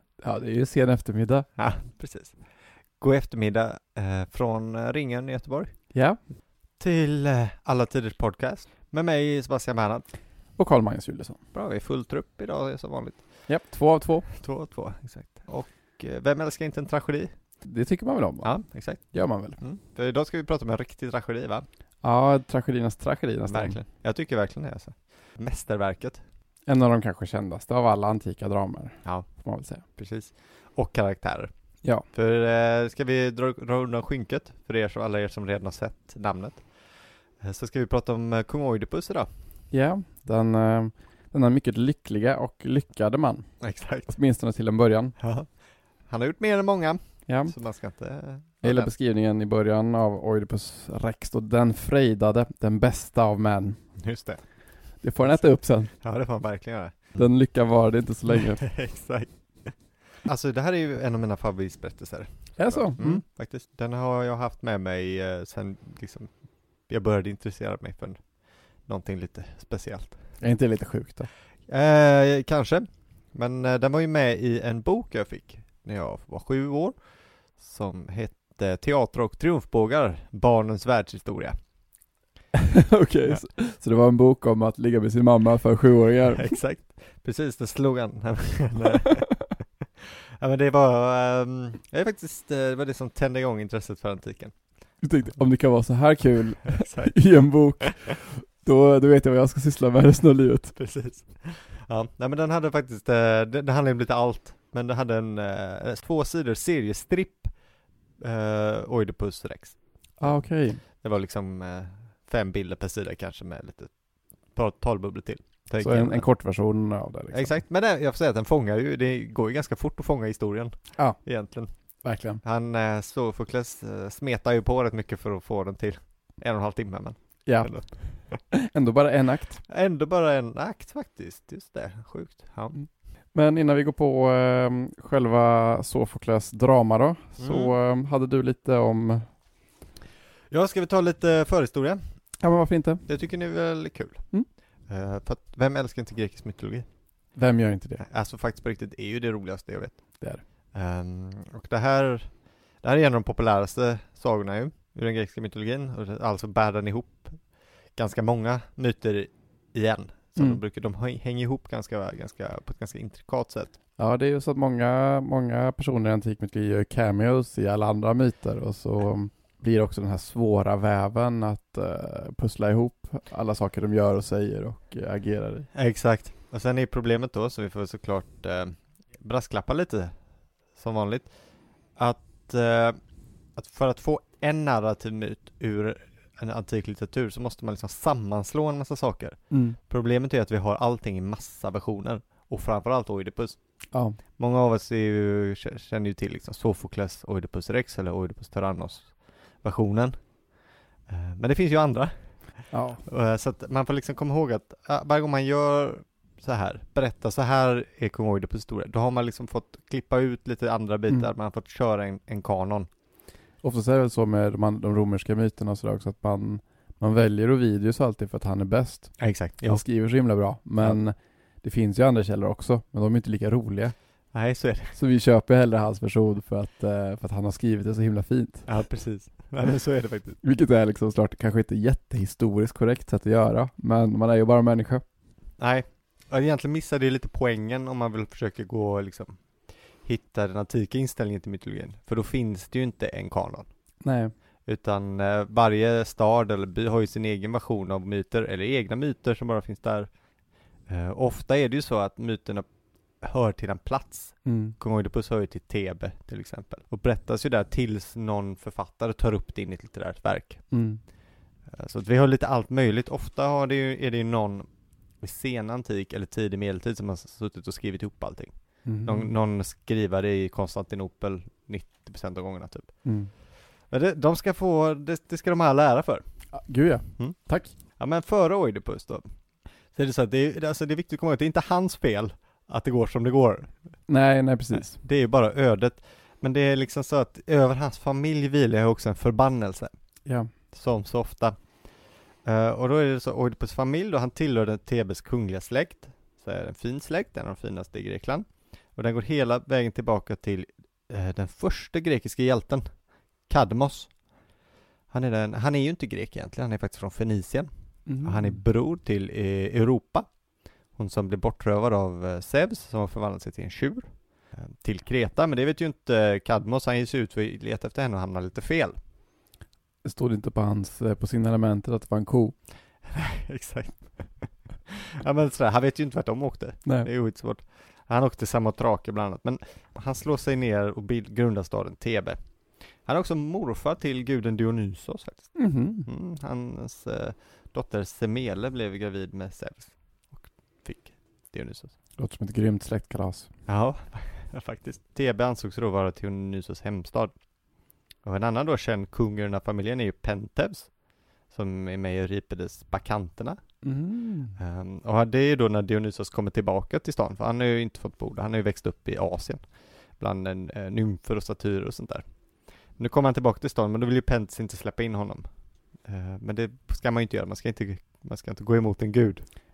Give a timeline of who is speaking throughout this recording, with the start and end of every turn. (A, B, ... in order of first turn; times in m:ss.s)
0:00.2-0:01.5 A
0:01.6-0:06.2 B
0:05.9-0:06.2 A
0:06.8-0:10.2 B
0:10.5-0:11.4 A
0:11.5-0:13.6 B
0:13.5-0:14.3 A
0:14.4-0:17.6 B
0:17.6-0:19.6 A
0:18.4-0:21.6 B
0:22.0-0:23.8 A
0:23.4-0:26.2 B
0:26.6-0:29.8 A
0:29.0-0:39.3 B
0:39.7-0:45.2 A
0:43.6-0:44.2 B
0:45.2-0:48.9 B
0:47.2-0:54.2 A
0:54.0-0:57.3 B
0:54.9-0:55.9 A
0:57.1-0:58.8 A
0:58.3-1:10.5 B
1:02.6-1:03.2 A
1:10.4-1:11.3 A
1:11.6-1:21.7 B
1:22.9-1:26.6 A
1:26.3-1:29.6 B
1:30.4-1:35.4 B
1:35.0-1:40.8 A
1:36.6-1:37.9 B
1:40.7-1:56.5 B
1:50.2-1:50.8 A
1:55.8-1:57.6 A
1:57.3-2:08.5 B
2:01.0-2:02.4 A
2:07.4-2:09.6 A
2:09.6-2:12.9 B
2:12.7-2:19.4 A
2:17.4-2:17.8 B
2:20.5-2:27.4 B
2:22.4-2:23.1 A
2:27.3-2:28.0 A
2:28.0-2:43.8 B
2:40.3-2:40.6 A
2:44.0-2:55.7 A
2:55.7-3:32.9 B
3:09.5-3:09.8 A
3:13.9-3:14.2 A
3:22.7-3:23.0 A
3:33.6-3:44.4 A
3:39.2-3:41.0 B
3:44.3-3:45.0 B
3:44.9-3:49.0 A
3:48.6-3:50.4 B
3:50.4-3:55.1 A
3:55.6-4:03.9 B
4:04.0-4:04.3 A
4:04.6-4:21.1 B
4:14.4-4:14.8 A
4:20.7-4:21.0 A
4:21.6-4:44.1 B
4:28.8-4:29.3 A
4:33.0-4:33.3 A
4:36.5-4:37.7 A
4:44.1-4:45.0 A
4:44.7-5:04.5 B
4:50.2-4:50.5 A
5:05.1-5:19.0 B
5:08.0-5:08.6 A
5:20.0-5:22.6 A
5:23.0-5:42.0 B
5:26.8-5:27.1 A
5:35.5-5:36.1 A
5:42.2-5:43.5 A
5:43.6-6:09.5 B
5:53.8-5:54.6 A